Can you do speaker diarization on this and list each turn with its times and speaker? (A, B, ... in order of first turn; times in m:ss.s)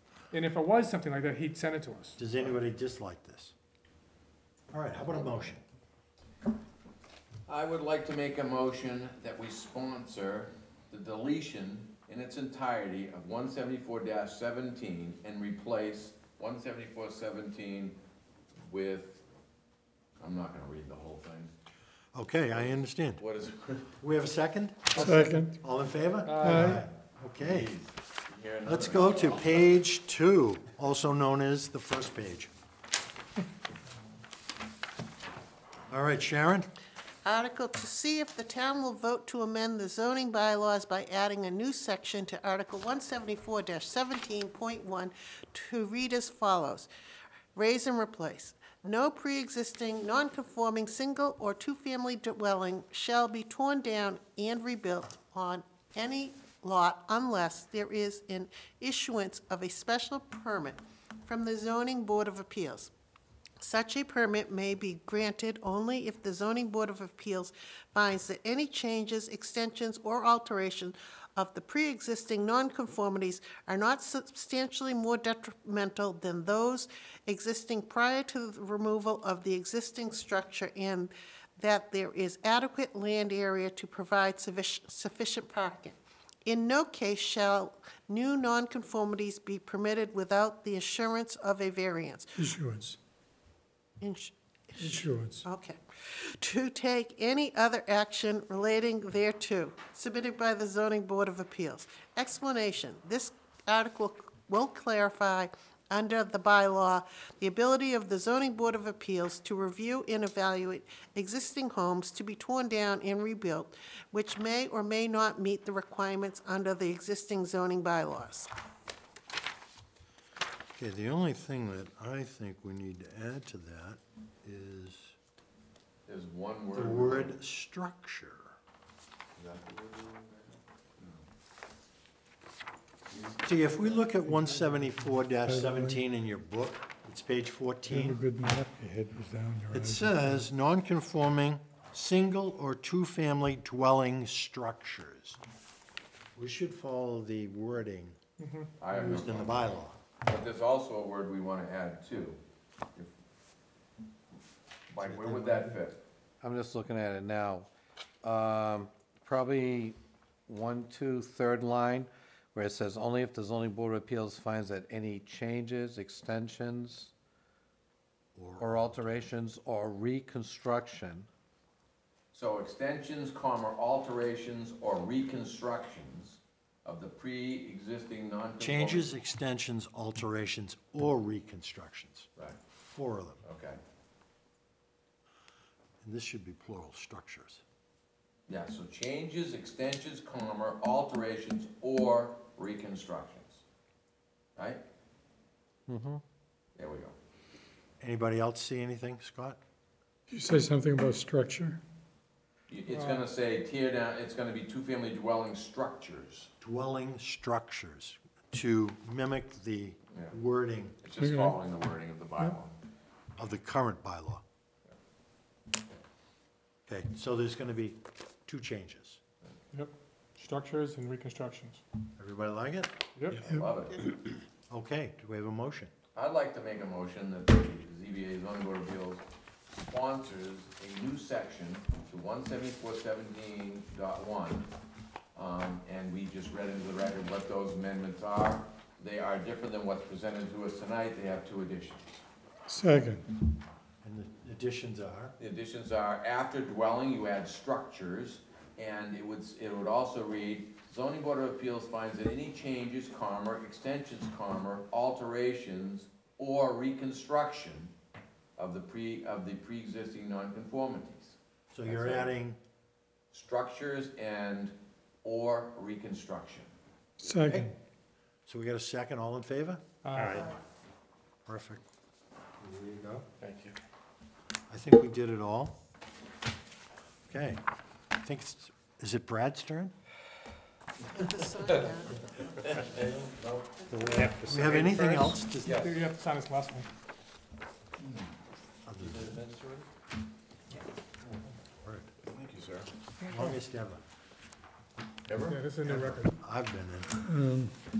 0:00.3-0:02.2 A
0:02.2-0:03.5 B
0:04.7-0:05.6 B
0:07.4-0:18.0 C
0:18.6-0:19.2 C
0:20.2-0:21.5 C
0:22.1-0:23.2 B
0:22.5-0:24.0 C
0:24.0-0:27.7 B
0:24.9-0:25.5 D
0:26.4-0:26.7 A
0:26.4-0:26.8 D
0:27.4-0:29.7 C
0:28.6-0:32.5 B
0:35.9-0:36.7 B
0:37.2-0:46.9 E
0:47.5-1:02.9 E
1:03.6-1:32.5 E
1:32.4-1:33.0 D
1:34.0-1:58.5 E
1:34.8-1:35.4 D
2:00.8-2:05.2 B
2:06.1-2:07.4 C
2:06.7-2:08.6 B
2:09.4-2:10.4 C
2:13.1-2:13.8 C
2:13.4-2:18.2 B
2:14.4-2:16.0 D
2:17.9-2:20.4 D
2:19.7-2:25.4 B
2:26.4-2:28.2 B
2:28.4-2:28.7 A
2:28.8-2:29.6 C
2:28.9-2:30.0 B
2:30.2-2:32.4 C
2:34.9-2:36.0 C
2:35.0-2:35.8 B
2:36.4-2:37.7 F
2:38.2-2:47.1 F
2:48.3-2:49.0 B
2:48.6-2:51.3 F
2:52.3-2:59.2 C
2:58.6-3:02.3 B
3:02.9-3:03.4 B
3:03.4-3:03.8 C
3:06.0-3:07.6 B
3:08.5-3:13.6 C
3:14.6-3:14.8 C
3:15.9-3:16.2 F
3:16.7-3:17.1 C
3:18.0-3:19.6 B
3:20.3-3:21.8 D
3:22.7-3:26.5 C
3:22.9-3:23.2 A
3:26.6-3:31.0 B
3:31.0-3:32.8 C
3:31.2-3:31.6 D
3:33.4-3:34.4 B
3:36.9-3:39.2 B
3:39.7-3:41.8 A
3:42.2-3:42.9 B
3:43.2-3:43.5 A
3:43.3-3:44.0 C
3:44.7-3:45.9 B
3:46.1-3:54.7 C
3:55.3-4:02.2 C
4:02.7-4:03.3 D
4:04.0-4:05.3 B
4:05.4-4:17.9 C
4:18.6-4:22.3 C
4:21.7-4:22.6 B
4:23.3-4:26.7 C
4:27.2-4:27.7 D
4:27.2-4:27.7 B
4:28.4-4:29.8 B
4:30.0-4:30.4 A
4:30.1-4:30.4 F
4:31.4-4:31.8 B
4:32.6-4:33.3 B
4:33.4-4:33.7 F
4:34.7-4:35.7 B
4:37.3-4:37.6 B
4:38.2-4:39.9 B
4:41.1-4:42.4 E
4:42.8-4:44.6 F
4:44.3-4:45.8 B
4:44.4-4:46.9 A
4:45.6-4:46.0 C
4:48.0-4:48.3 C
4:48.8-4:49.3 B
4:49.0-4:49.8 C
4:51.8-4:52.1 B
4:52.2-4:52.9 C
4:53.2-4:54.0 B
4:55.2-4:55.6 C
4:55.4-4:56.3 A
4:55.8-4:57.2 B
4:57.2-4:57.7 D